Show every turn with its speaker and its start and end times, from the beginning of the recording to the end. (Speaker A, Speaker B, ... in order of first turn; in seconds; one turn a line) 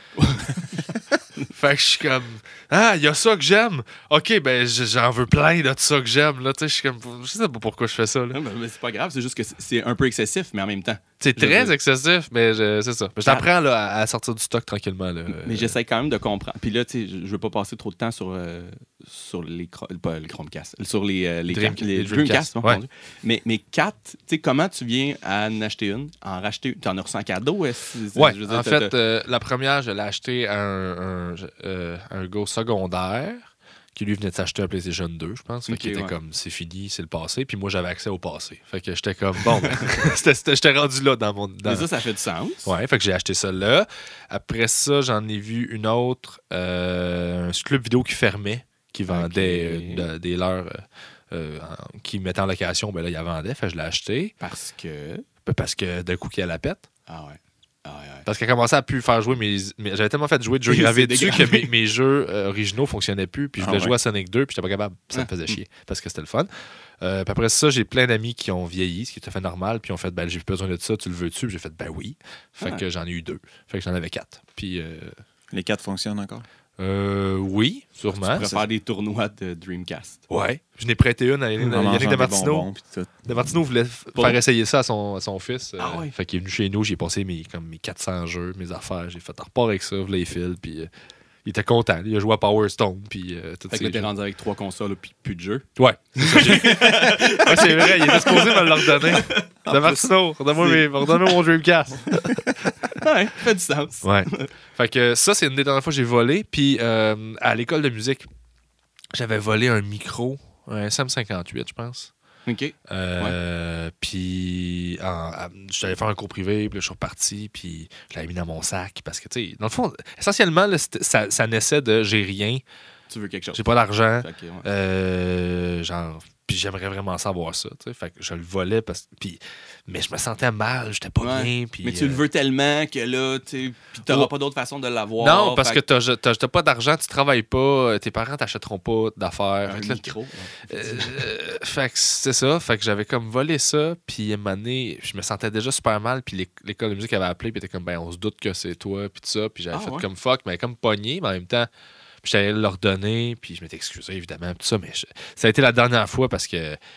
Speaker A: 0.2-1.5
Speaker B: 1.5-8.4
Speaker A: 8.3-11.7
Speaker B: 11.2-15.7
Speaker A: 15.3-28.9
Speaker B: 21.5-22.8
Speaker B: 28.2-41.9
Speaker A: 35.7-36.2
Speaker A: 39.5-40.0
Speaker A: 41.6-42.7
Speaker B: 42.7-54.4
Speaker A: 49.1-50.1
Speaker A: 54.4-55.3
Speaker B: 55.5-56.8
Speaker A: 57.1-58.3
Speaker B: 58.3-66.5
Speaker A: 60.7-61.7
Speaker C: 63.6-64.0
Speaker A: 65.1-65.6
Speaker B: 67.0-75.2
Speaker C: 75.5-76.4
Speaker B: 76.8-78.5
Speaker A: 78.1-80.2
Speaker C: 78.4-78.7
Speaker B: 80.3-82.7
Speaker C: 81.6-83.3
Speaker B: 83.3-90.9
Speaker A: 85.8-86.1
Speaker B: 91.5-94.1
Speaker A: 93.7-101.4
Speaker B: 95.8-102.9
Speaker A: 102.9-104.5
Speaker B: 104.0-108.3
Speaker B: 109.1-112.1
Speaker A: 112.5-113.4
Speaker B: 112.9-122.6
Speaker A: 123.1-123.6
Speaker B: 123.5-132.2
Speaker A: 124.2-124.7
Speaker A: 131.2-135.8
Speaker B: 135.2-140.1
Speaker A: 139.7-141.2
Speaker B: 140.7-151.7
Speaker A: 149.7-150.1
Speaker B: 152.2-156.8